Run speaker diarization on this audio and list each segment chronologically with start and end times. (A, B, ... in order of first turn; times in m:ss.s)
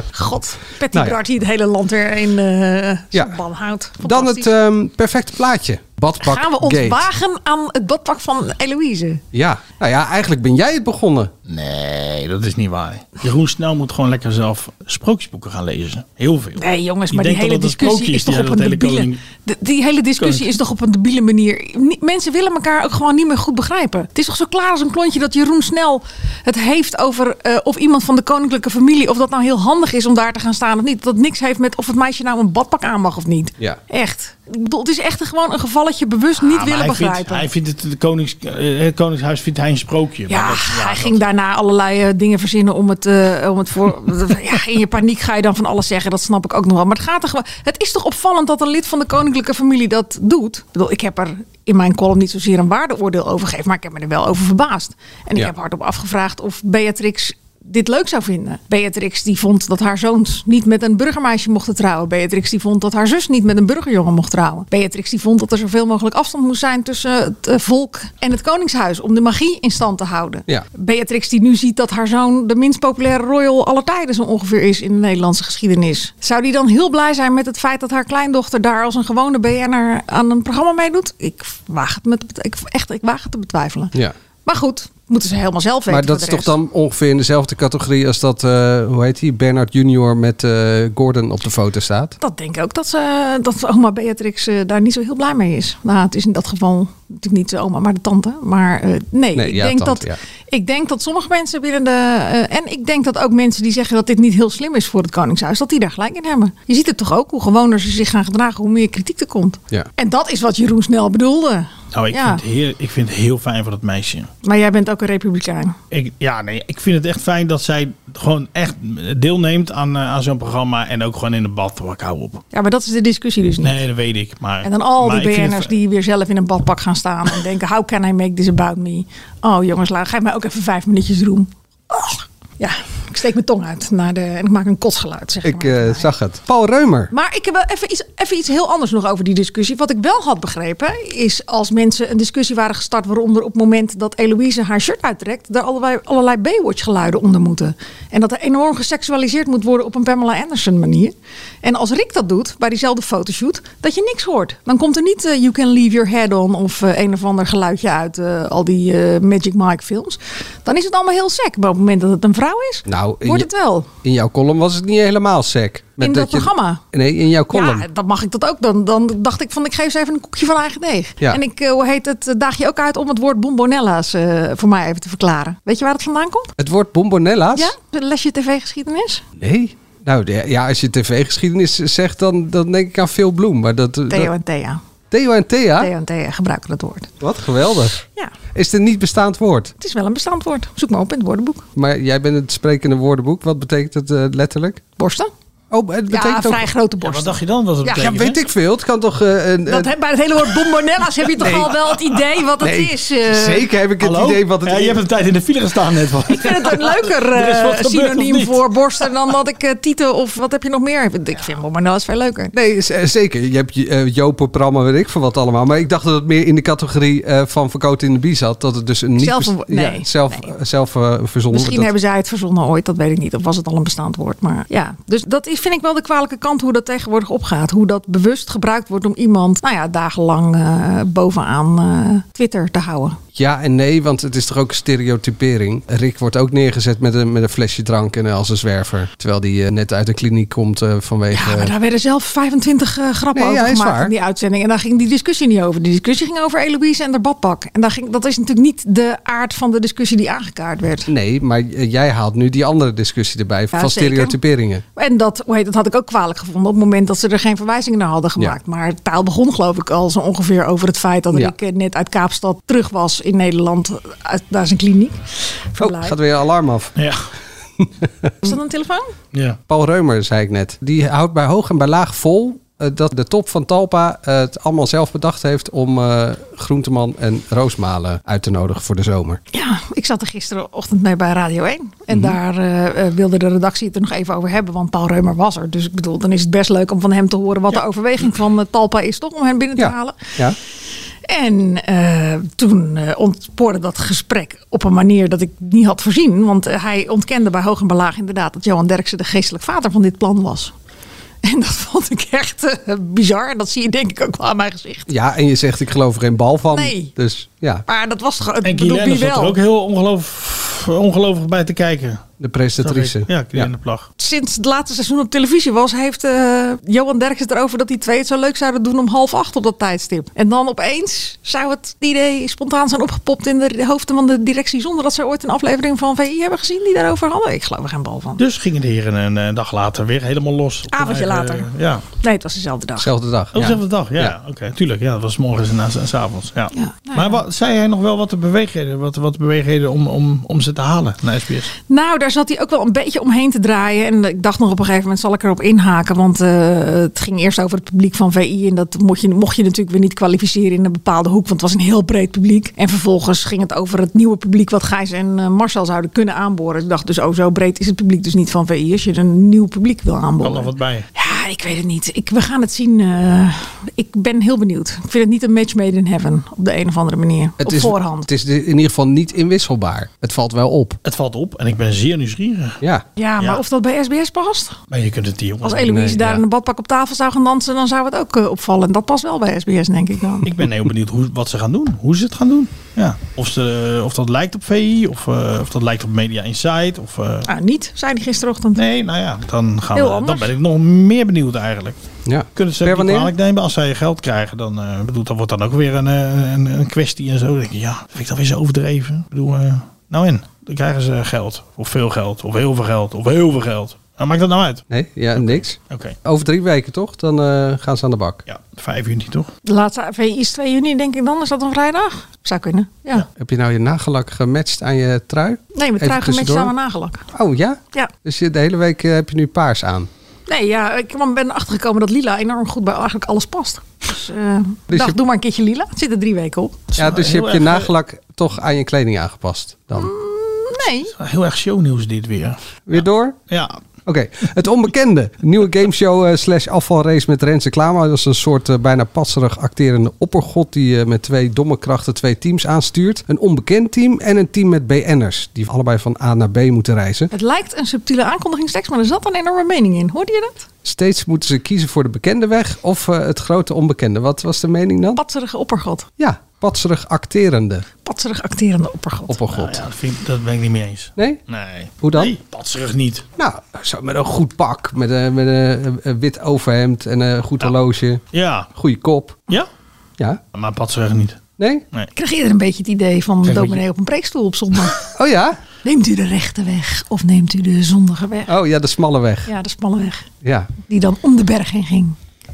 0:00.1-0:04.5 A
0:04.0-0:07.1 B
0:06.2-0:09.2 A
0:09.3-0:11.3 B
0:11.5-0:19.2 C
0:16.6-0:37.5 A
0:20.2-0:20.5 C
0:36.4-0:41.2 C
0:40.3-1:26.5 A
1:25.9-1:32.2 B
1:32.2-1:52.4 A
1:39.4-1:40.2 B
1:51.9-1:54.3 C
1:54.4-1:55.8 A
1:55.9-2:02.4 C
2:02.5-2:03.8 A
2:03.6-2:05.7 C
2:04.6-2:16.1 A
2:15.4-2:17.1 B
2:17.1-2:43.9 A
2:42.9-2:43.5 B
2:44.0-2:47.9 B
2:46.0-2:46.8 A
2:47.5-2:56.5 A
2:56.6-2:57.7 B
2:57.6-2:59.2 A
2:59.4-3:04.3 B
3:04.1-3:04.8 A
3:05.1-3:05.9 B
3:05.8-3:07.1 A
3:07.2-3:08.0 B
3:08.5-3:09.7 B
3:09.8-3:11.6 A
3:11.8-3:14.8 B
3:15.0-3:15.3 A
3:15.7-3:16.7 B
3:16.1-3:18.1 A
3:17.0-3:18.4 C
3:18.0-3:19.9 B
3:19.7-3:23.7 A
3:21.4-3:21.8 B
3:22.6-3:25.0 B
3:24.0-3:29.1 C
3:26.3-3:32.5 A
3:32.5-3:41.9 B
3:39.2-3:40.5 A
3:41.5-3:53.2 A
3:53.4-4:01.7 B
4:01.3-4:11.1 A
4:03.3-4:04.1 B
4:11.1-4:14.8 B
4:13.7-4:14.4 A
4:15.0-4:26.2 A
4:25.8-4:27.0 B
4:27.0-4:27.3 C
4:27.8-4:28.3 B
4:28.4-4:29.1 A
4:29.3-4:29.6 C
4:29.7-4:39.4 B
4:39.5-4:50.4 A
4:42.1-4:42.4 B
4:49.8-4:50.6 B
4:51.2-5:00.7 A
5:01.4-5:05.1 A
5:05.1-5:07.8 B
5:06.7-5:07.1 A
5:07.9-5:09.6 A
5:08.6-5:12.2 C
5:12.4-5:13.7 B
5:12.8-5:14.1 C
5:14.2-5:28.4 A
5:28.4-5:32.0 C
5:30.9-5:33.1 A
5:33.0-5:34.4 B
5:33.5-5:41.7 C
5:36.7-5:37.4 A
5:41.9-6:08.3 A
6:00.4-6:01.1 C
6:07.6-6:11.0 B
6:11.0-6:12.8 C
6:13.2-6:14.8 A
6:14.9-6:16.0 C
6:15.6-6:20.5 A
6:15.9-6:16.4 B
6:20.4-6:27.5 C
6:27.5-6:28.8 A
6:28.8-6:32.0 C
6:30.0-6:30.5 A
6:32.3-6:33.3 B
6:32.6-6:44.8 C
6:44.9-6:48.4 B
6:45.4-6:46.2 C
6:48.5-6:49.5 C
6:49.6-6:53.3 A
6:53.4-6:56.7 B
6:55.8-6:57.2 A
6:57.3-7:00.1 B
7:00.5-7:06.9 A
7:04.9-7:05.2 B
7:07.0-7:07.9 C
7:07.0-7:10.1 B
7:10.0-7:11.1 A
7:11.1-7:13.8 C
7:12.9-7:13.4 B
7:14.1-7:27.3 B
7:27.3-7:30.7 A
7:30.8-7:35.2 B
7:35.2-7:36.1 A
7:36.2-7:37.9 B
7:38.0-7:39.4 A
7:39.3-7:39.8 B
7:39.5-7:43.3 C
7:42.0-7:42.3 B
7:43.4-7:49.4 B
7:48.3-7:48.7 C
7:50.5-7:51.4 C
7:51.6-7:51.8 B
7:52.2-7:55.0 A
7:53.5-7:53.8 C
7:55.2-7:55.6 B
7:55.8-7:58.5 A
7:58.5-7:59.5 B
7:59.5-8:00.3 A
8:00.4-8:00.7 B
8:00.9-8:02.2 A